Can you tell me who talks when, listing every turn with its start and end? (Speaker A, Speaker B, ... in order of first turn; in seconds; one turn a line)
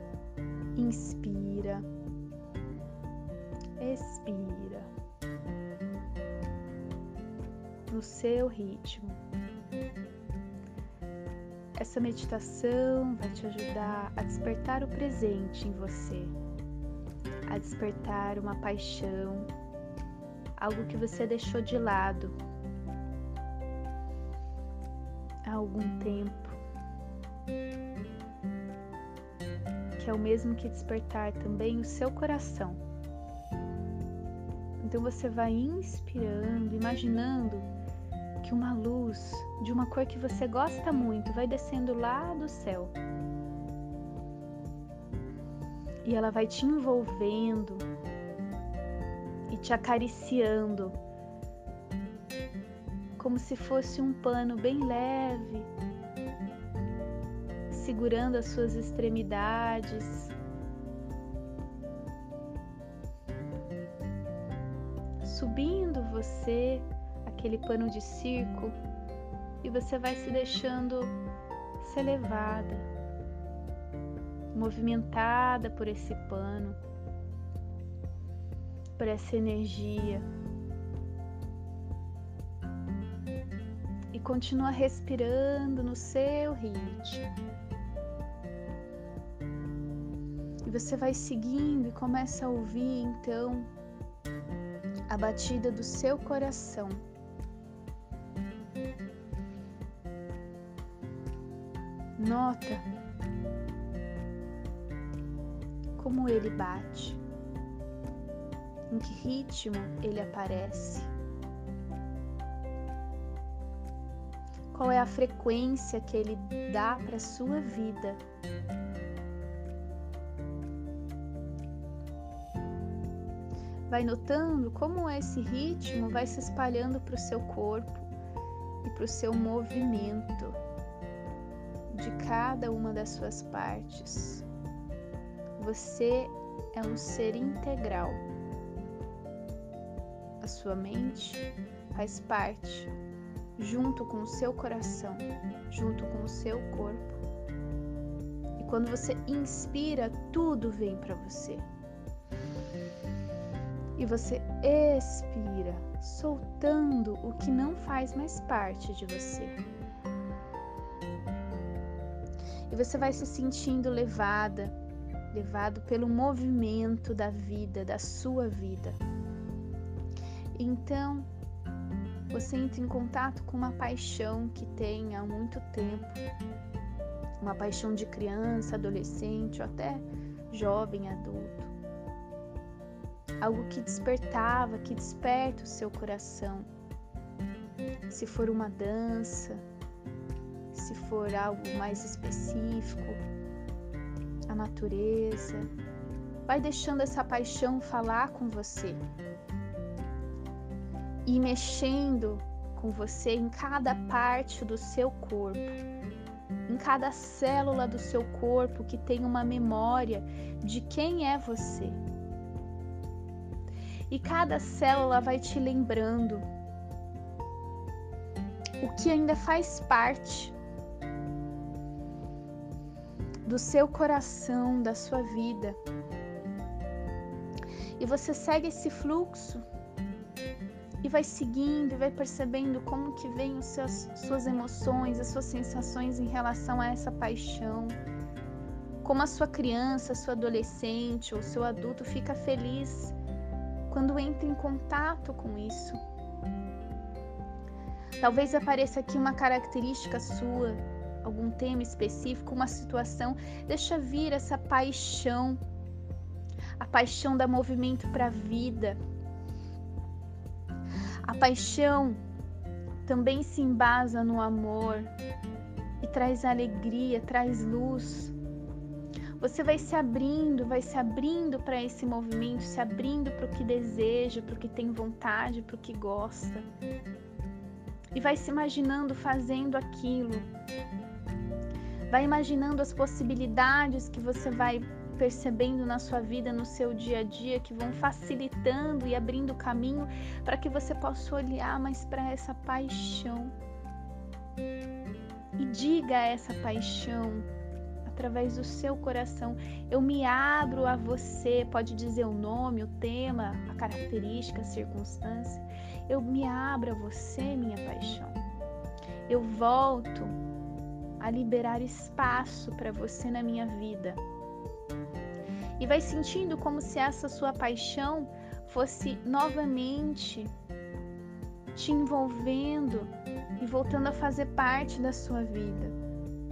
Speaker A: 0.8-1.9
Speaker A: 3.8-4.9
Speaker A: 7.9-9.2
Speaker A: 11.8-16.4
Speaker A: 17.5-19.5
Speaker A: 20.6-22.4
Speaker A: 25.5-26.6
Speaker A: 30.0-32.8
Speaker A: 34.8-37.7
Speaker A: 38.4-43.0
Speaker A: 46.0-47.9
Speaker A: 49.5-51.0
Speaker A: 53.2-55.7
Speaker A: 57.7-60.4
Speaker A: 65.2-68.8
Speaker A: 69.6-71.2
Speaker A: 71.8-72.9
Speaker A: 74.5-76.8
Speaker A: 79.0-80.3
Speaker A: 84.1-87.4
Speaker A: 90.6-93.7
Speaker A: 95.1-97.0
Speaker A: 102.2-102.9
Speaker A: 106.0-107.2
Speaker A: 108.9-111.1
Speaker A: 114.7-118.2
Speaker A: 123.9-128.1
Speaker A: 128.8-130.6
Speaker A: 131.9-134.5
Speaker A: 135.6-138.2
Speaker A: 140.4-142.9
Speaker A: 143.6-147.2
Speaker A: 148.6-151.7
Speaker A: 154.0-159.6
Speaker A: 162.7-164.8
Speaker A: 165.3-169.0
Speaker A: 170.6-171.3
Speaker A: 172.3-176.2
Speaker A: 177.4-181.7
Speaker A: 183.4-186.7
Speaker A: 188.1-189.7
Speaker A: 190.7-193.2
Speaker A: 194.5-195.7
Speaker A: 196.5-199.0
Speaker A: 201.3-205.8
Speaker A: 206.7-212.0
Speaker A: 214.1-216.5
Speaker A: 218.8-220.6
Speaker A: 223.4-225.8
Speaker A: 228.0-229.6
Speaker A: 231.0-238.0
Speaker A: 239.0-243.2
Speaker A: 243.9-246.0
Speaker A: 248.2-255.6
Speaker A: 256.8-259.0
Speaker A: 261.3-262.2
Speaker A: 263.1-265.1
Speaker A: 266.0-268.4
Speaker A: 269.4-276.7
Speaker A: 278.1-280.5
Speaker A: 282.1-293.5
Speaker A: 295.6-297.5
Speaker A: 298.1-308.4
Speaker A: 309.3-310.4
Speaker A: 311.2-314.2
Speaker A: 315.8-320.5
Speaker A: 321.7-326.0